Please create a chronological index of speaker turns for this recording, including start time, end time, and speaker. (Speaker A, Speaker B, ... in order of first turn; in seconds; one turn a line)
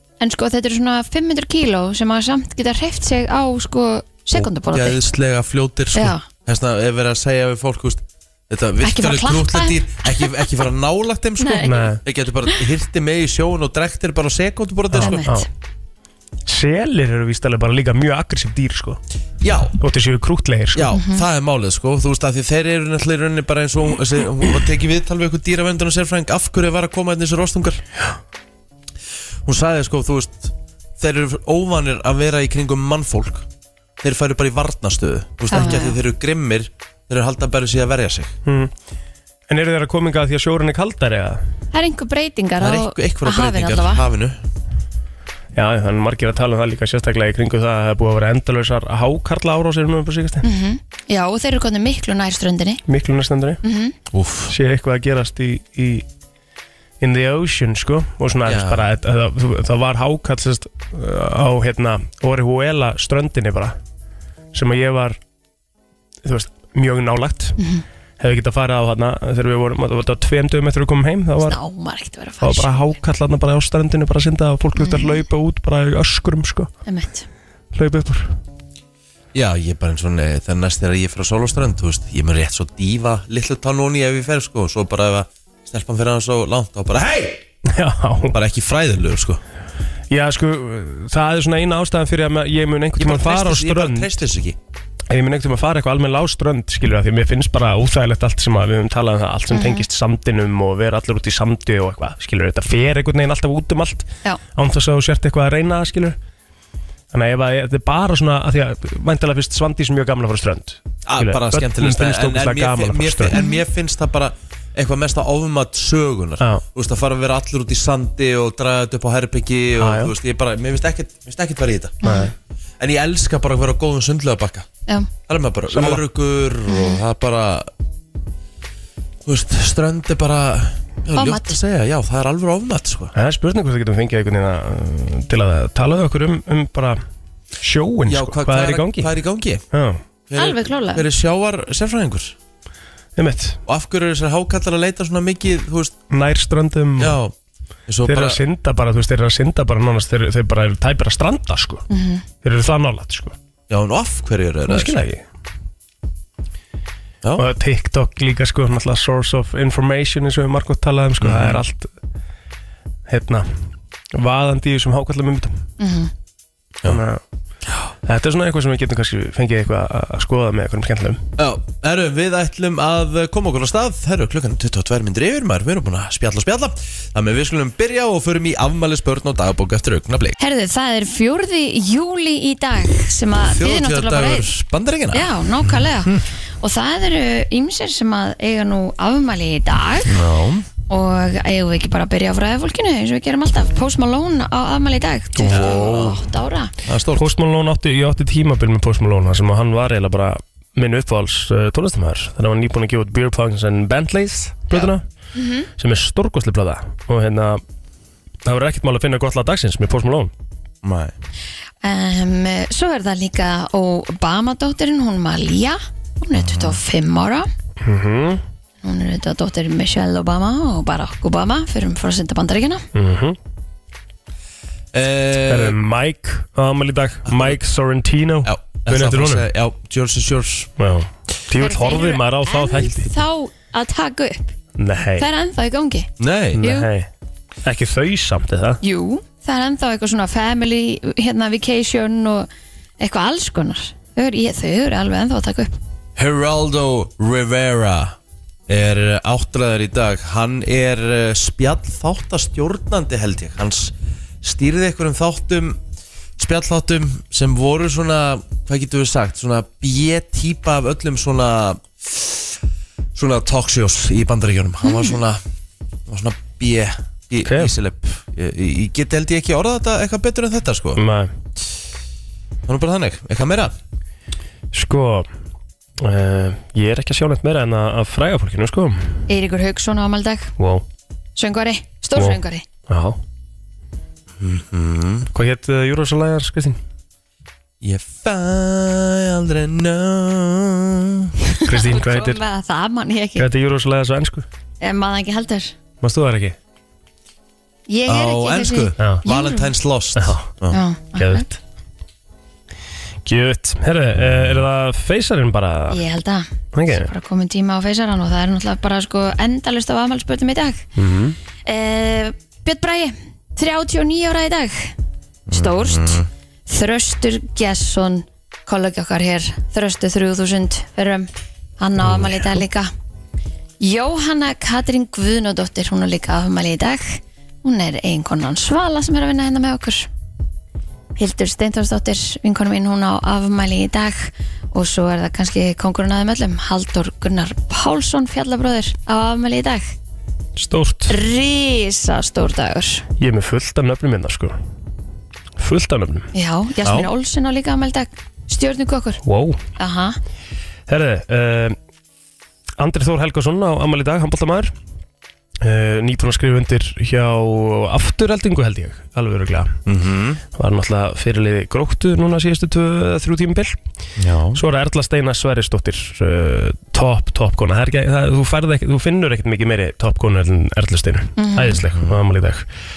Speaker A: 0.2-5.0
Speaker B: 4.3-15.3
Speaker A: 5.9-6.2
Speaker A: 8.8-10.6
Speaker A: 11.4-11.9
Speaker C: 11.6-12.0
Speaker C: 14.9-15.5
Speaker A: 15.0-15.5
Speaker C: 16.5-19.0
Speaker B: 19.4-19.8
Speaker C: 19.8-20.9
Speaker B: 20.8-27.8
Speaker A: 20.9-21.2
Speaker B: 29.4-33.5
Speaker B: 34.0-38.3
Speaker A: 35.5-36.0
Speaker C: 38.5-38.7
Speaker C: 39.5-41.4
Speaker A: 41.7-44.0
Speaker B: 42.6-44.4
Speaker C: 45.5-50.5
Speaker A: 50.4-52.8
Speaker C: 52.9-53.6
Speaker A: 53.6-54.0
Speaker B: 54.1-54.5
Speaker C: 54.5-56.1
Speaker C: 57.0-63.8
Speaker B: 58.5-58.9
Speaker C: 64.5-65.2
Speaker C: 66.2-67.6
Speaker A: 67.6-67.8
Speaker C: 68.2-71.6
Speaker A: 71.4-72.9
Speaker C: 72.4-76.7
Speaker A: 74.8-75.2
Speaker A: 76.9-77.3
Speaker C: 77.7-78.3
Speaker B: 79.3-87.4
Speaker C: 87.7-88.4
Speaker B: 88.3-89.4
Speaker C: 90.1-94.2
Speaker B: 93.0-94.6
Speaker C: 95.1-106.2
Speaker A: 99.5-99.8
Speaker C: 107.1-113.4
Speaker B: 111.1-122.0
Speaker A: 113.3-113.6
Speaker C: 119.8-120.1
Speaker A: 122.0-122.3
Speaker B: 122.8-124.7
Speaker B: 125.3-127.7
Speaker C: 125.7-126.0
Speaker A: 126.7-127.0
Speaker B: 129.2-133.1
Speaker A: 131.2-131.6
Speaker C: 133.2-137.0
Speaker C: 137.6-139.1
Speaker B: 138.1-139.6
Speaker C: 139.7-140.0
Speaker B: 140.3-142.4
Speaker A: 140.4-141.1
Speaker C: 143.2-143.6
Speaker B: 143.7-145.9
Speaker C: 146.1-147.2
Speaker B: 147.0-147.3
Speaker B: 147.9-148.4
Speaker C: 148.1-151.8
Speaker A: 151.9-152.2
Speaker C: 152.4-153.3
Speaker B: 153.7-155.0
Speaker C: 154.7-155.2
Speaker C: 157.4-161.9
Speaker B: 161.2-161.6
Speaker C: 163.1-163.5
Speaker C: 164.1-165.6
Speaker A: 165.8-166.1
Speaker C: 166.8-167.2
Speaker C: 168.1-171.2
Speaker B: 171.4-180.4
Speaker A: 180.4-184.5
Speaker B: 183.4-186.2
Speaker A: 185.1-190.2
Speaker B: 190.1-190.7
Speaker A: 190.9-196.7
Speaker C: 195.4-196.1
Speaker B: 195.5-196.2
Speaker B: 196.8-197.3
Speaker C: 197.2-205.0
Speaker A: 205.4-205.7
Speaker C: 205.8-207.6
Speaker C: 208.4-210.3
Speaker B: 210.8-211.2
Speaker A: 211.8-217.5
Speaker B: 216.3-216.8
Speaker C: 217.8-218.4
Speaker A: 218.8-222.8
Speaker C: 222.9-223.4
Speaker B: 224.9-225.8
Speaker C: 225.5-229.5
Speaker B: 227.3-227.6
Speaker B: 228.4-230.7
Speaker C: 230.8-233.1
Speaker A: 231.6-234.6
Speaker C: 234.8-235.3
Speaker A: 235.2-236.1
Speaker B: 236.2-236.6
Speaker C: 236.6-237.1
Speaker A: 236.6-236.9
Speaker C: 237.6-238.8
Speaker A: 238.8-242.5
Speaker A: 243.0-245.8
Speaker B: 246.2-248.2
Speaker B: 248.7-255.8
Speaker B: 256.4-262.6
Speaker B: 263.1-265.4
Speaker A: 264.8-265.2
Speaker B: 266.1-271.0
Speaker C: 267.4-267.7
Speaker C: 271.0-271.3
Speaker B: 272.7-273.7
Speaker C: 274.7-275.3
Speaker C: 276.0-279.1
Speaker A: 279.3-280.5
Speaker C: 280.6-280.8
Speaker A: 281.4-282.6
Speaker C: 282.1-283.2
Speaker B: 284.4-285.3
Speaker C: 285.3-286.8
Speaker B: 287.8-291.3
Speaker A: 291.5-293.5
Speaker C: 291.7-292.4
Speaker C: 293.4-294.4
Speaker A: 294.8-295.8
Speaker C: 296.0-296.6
Speaker A: 297.9-299.7
Speaker B: 298.1-300.8
Speaker C: 299.0-299.2
Speaker C: 300.2-300.5
Speaker A: 300.7-301.5
Speaker C: 301.2-301.6
Speaker C: 303.2-306.0
Speaker B: 304.2-304.6
Speaker A: 305.9-310.9
Speaker C: 306.7-307.1
Speaker C: 311.0-311.4
Speaker A: 311.7-314.9
Speaker B: 315.5-316.3
Speaker A: 315.5-321.3
Speaker A: 321.8-322.9
Speaker A: 323.8-330.1
Speaker A: 331.2-339.9
Speaker C: 340.6-341.2
Speaker A: 341.1-343.1
Speaker C: 343.2-344.6
Speaker C: 345.6-346.3
Speaker A: 346.3-349.2
Speaker B: 346.8-347.1
Speaker C: 349.2-349.6
Speaker A: 349.8-350.2
Speaker C: 350.9-351.8
Speaker C: 352.8-354.7
Speaker C: 355.6-359.8
Speaker B: 359.9-360.4
Speaker C: 360.6-363.8
Speaker B: 364.2-364.6
Speaker C: 364.6-372.6
Speaker A: 371.4-371.8
Speaker B: 371.8-372.2